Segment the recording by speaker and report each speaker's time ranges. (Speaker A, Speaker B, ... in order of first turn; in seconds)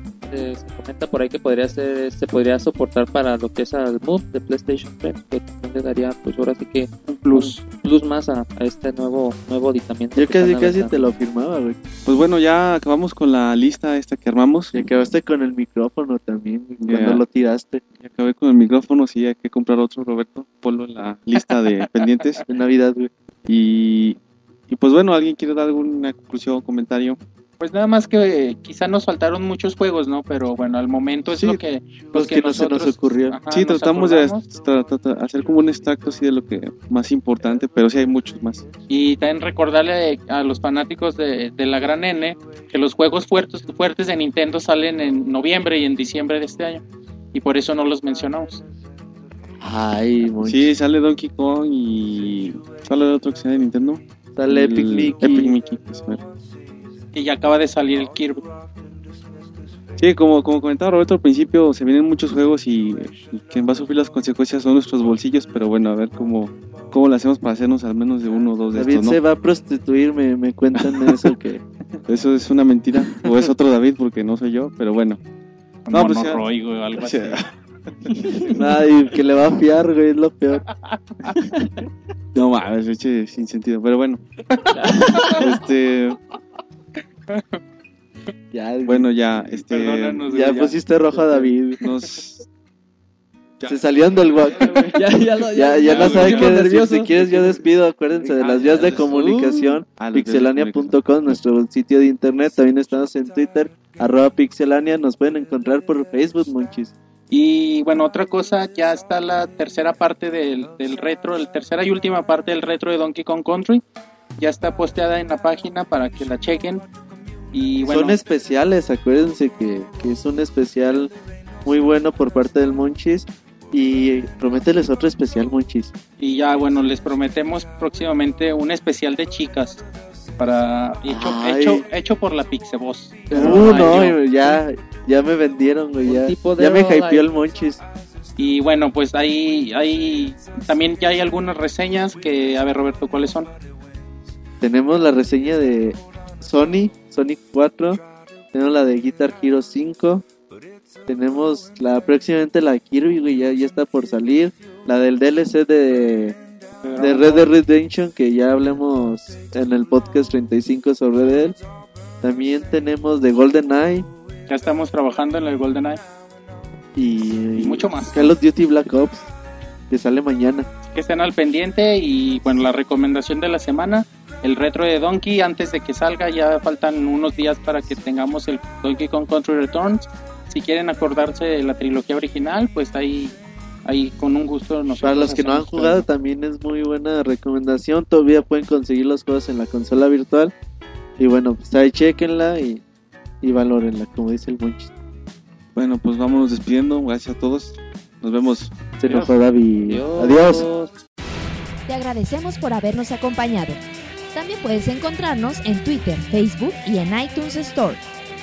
Speaker A: 0.3-11.1, 78.2-78.5, 84.7-85.5, 94.9-97.6, 98.8-99.7, 133.3-134.5, 136.1-137.3, 199.8-200.9
Speaker B: 7.1-7.6, 21.6-22.1, 27.6-34.4, 38.9-46.8, 47.3-48.6, 57.1-58.4, 75.9-77.4, 80.9-81.4, 85.2-85.4, 87.3-87.6, 89.7-90.8, 95.8-96.5, 107.3-113.8, 114.4-116.8, 117.5-118.2, 126.2-129.8, 130.4-134.2, 138.4-143.5, 156.8-157.5, 164.5-166.0, 167.6-168.3, 170.9-186.1
Speaker C: 10.2-11.8, 14.7-17.8, 22.5-23.1, 32.1-33.4, 49.6-50.7, 54.4-55.5, 68.7-71.6, 73.2-73.5, 78.5-80.7, 88.5-89.1, 90.3-91.8, 93.6-95.0, 95.5-106.9, 117.9-121.1, 121.7-125.9, 131.1-131.8, 133.3-137.8, 144.6-148.0, 148.5-150.2, 151.1-156.4, 157.0-161.6, 162.2-164.1, 166.9-169.3, 169.9-170.7, 185.0-190.5, 191.2-192.8, 193.4-194.9, 199.0-200.7
Speaker D: 12.1-14.7, 16.8-17.2, 18.0-22.4, 23.5-24.2, 24.7-27.2, 31.3-31.6, 33.5-38.6, 50.4-56.2, 60.0-69.2, 70.8-71.3, 72.1-75.2, 75.9-76.4, 77.0-77.5, 82.3-84.2, 85.2-86.2, 88.8-90.3, 91.8-92.5, 98.3-99.4, 100.0-101.0, 195.8-198.7
Speaker E: 201.9-203.8, 204.3-208.0